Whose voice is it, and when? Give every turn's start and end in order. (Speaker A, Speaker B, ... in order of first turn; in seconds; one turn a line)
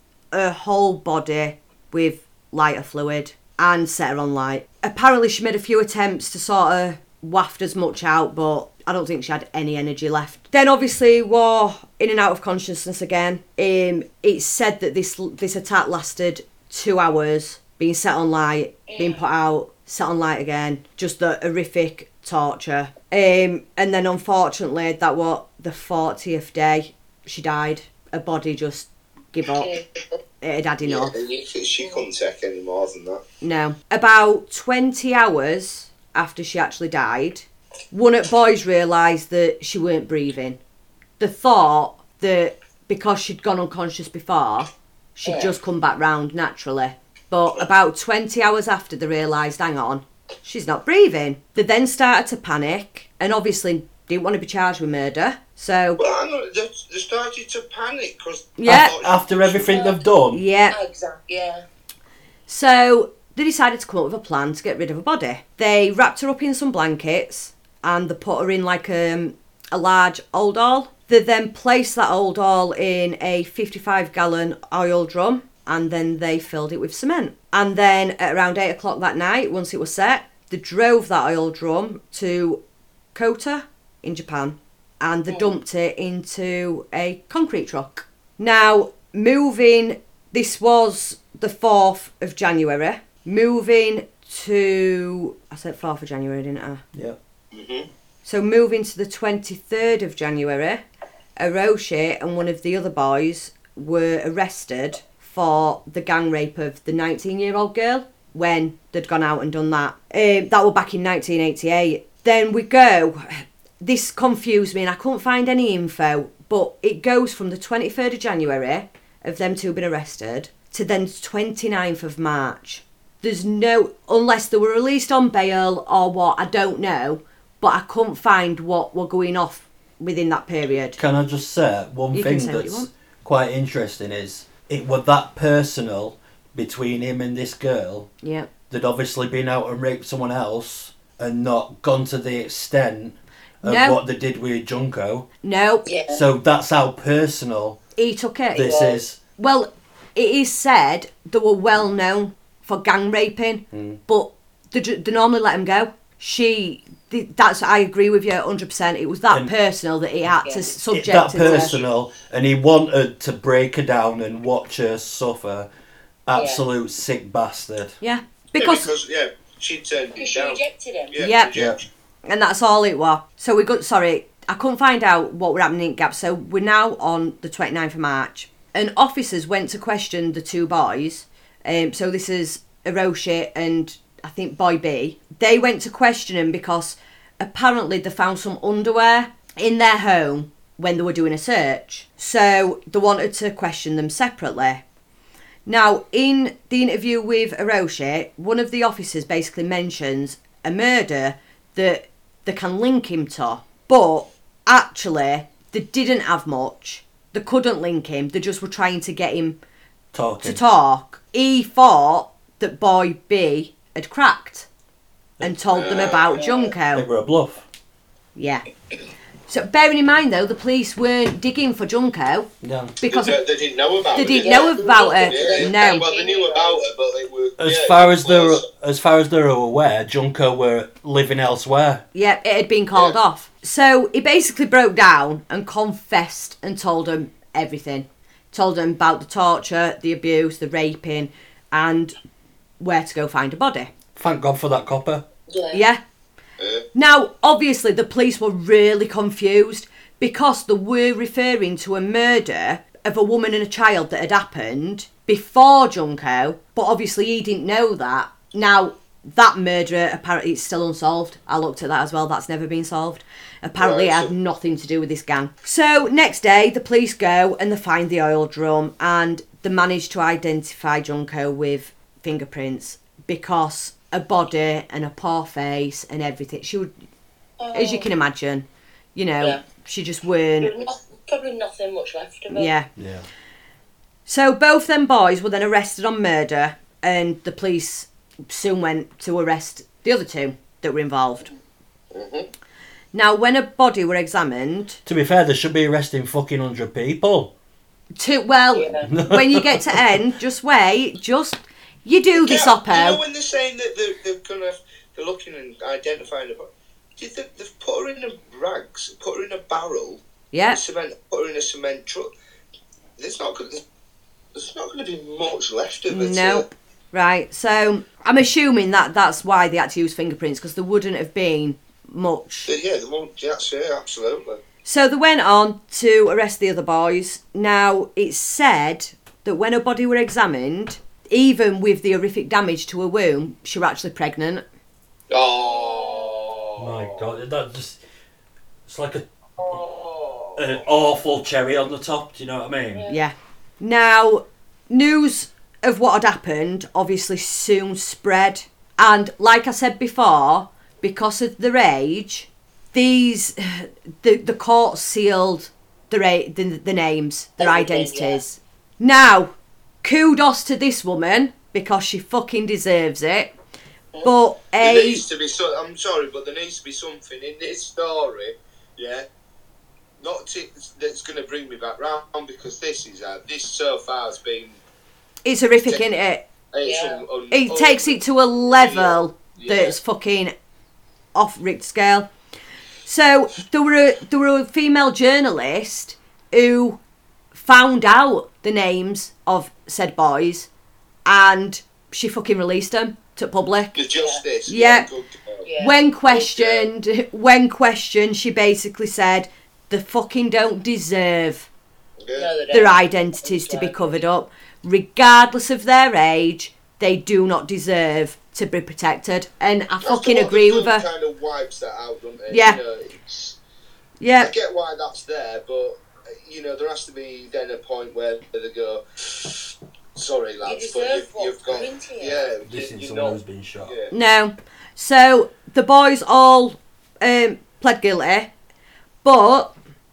Speaker A: 0.3-29.7
Speaker B: 18.9-19.2
Speaker B: 29.6-30.2
Speaker A: 30.4-31.1
Speaker C: 30.8-33.2
Speaker A: 33.4-40.6
Speaker A: 41.2-56.0
Speaker B: 45.2-45.5
Speaker C: 56.0-59.9
Speaker A: 58.6-59.0
Speaker D: 58.7-60.4
Speaker B: 59.7-60.0
Speaker A: 60.3-60.8
Speaker B: 60.7-61.7
Speaker A: 62.5-82.6
Speaker A: 83.1-96.8
Speaker B: 85.3-85.5
Speaker C: 97.5-97.9
Speaker A: 98.2-100.8
Speaker A: 101.4-131.0
Speaker D: 131.0-138.1
Speaker A: 132.1-132.9
Speaker A: 138.2-138.5
Speaker D: 138.7-145.3
Speaker A: 143.6-144.0
Speaker A: 145.4-145.9
Speaker B: 145.8-146.2
Speaker D: 146.1-147.8
Speaker A: 147.9-148.8
Speaker D: 148.5-149.2
Speaker B: 148.6-149.0
Speaker A: 149.4-161.8
Speaker D: 153.7-154.0
Speaker B: 160.4-160.7
Speaker D: 160.9-165.7
Speaker C: 161.4-161.9
Speaker D: 166.3-167.9
Speaker B: 166.4-166.6
Speaker A: 168.0-168.9
Speaker C: 168.6-170.6
Speaker B: 170.2-171.2
Speaker C: 171.1-171.8
Speaker A: 171.2-171.5
Speaker A: 172.3-194.8
Speaker A: 195.7-209.6
Speaker D: 210.1-210.6
Speaker A: 210.4-214.7
Speaker A: 215.4-217.1
Speaker C: 215.7-216.4
Speaker B: 215.9-216.7
Speaker D: 216.9-217.6
Speaker A: 218.4-218.6
Speaker A: 219.5-222.5
Speaker D: 222.6-222.9
Speaker A: 223.0-223.4
Speaker C: 223.1-228.6
Speaker A: 224.1-226.1
Speaker B: 224.3-226.8
Speaker D: 227.6-232.0
Speaker A: 232.1-242.1
Speaker A: 242.8-243.9
Speaker D: 244.1-245.2
Speaker B: 245.5-245.8
Speaker A: 245.7-246.0
Speaker C: 246.6-246.9
Speaker A: 246.9-276.9
Speaker C: 263.8-264.3
Speaker B: 277.6-278.1
Speaker A: 277.7-280.7
Speaker B: 280.6-282.7
Speaker A: 282.5-282.9
Speaker D: 283.0-283.3
Speaker A: 284.3-291.5
Speaker C: 292.1-292.5
Speaker A: 293.1-295.0
Speaker D: 295.1-297.5
Speaker A: 298.2-303.2
Speaker B: 298.7-299.1
Speaker D: 299.0-300.1
Speaker C: 302.3-312.3
Speaker A: 310.5-310.8
Speaker C: 313.2-313.8
Speaker C: 314.5-316.6
Speaker A: 316.1-322.7
Speaker C: 322.7-324.6
Speaker A: 324.9-334.6
Speaker C: 335.3-337.3
Speaker B: 335.6-336.6
Speaker D: 336.8-338.0
Speaker D: 338.9-339.8
Speaker C: 339.6-340.6
Speaker D: 340.6-343.1
Speaker B: 342.9-343.2
Speaker A: 343.1-363.5
Speaker B: 357.6-358.4
Speaker A: 364.2-365.2
Speaker C: 364.8-369.3
Speaker C: 370.2-374.8
Speaker A: 375.4-376.4
Speaker C: 376.7-379.9
Speaker B: 376.8-377.2
Speaker A: 377.5-380.5
Speaker A: 381.4-382.3
Speaker A: 383.1-387.0
Speaker A: 387.5-390.7
Speaker A: 391.3-393.9
Speaker C: 393.9-395.7
Speaker B: 394.1-394.4
Speaker A: 394.7-395.1
Speaker B: 395.6-395.9
Speaker A: 395.8-401.7
Speaker C: 396.3-396.9
Speaker C: 402.2-402.5
Speaker B: 402.3-404.3
Speaker A: 402.7-411.1
Speaker C: 410.0-413.6
Speaker A: 412.5-412.8
Speaker A: 414.2-414.5
Speaker C: 414.4-419.6
Speaker C: 420.1-424.1
Speaker B: 420.6-422.4
Speaker D: 422.6-423.9
Speaker A: 424.1-428.5
Speaker A: 429.2-429.7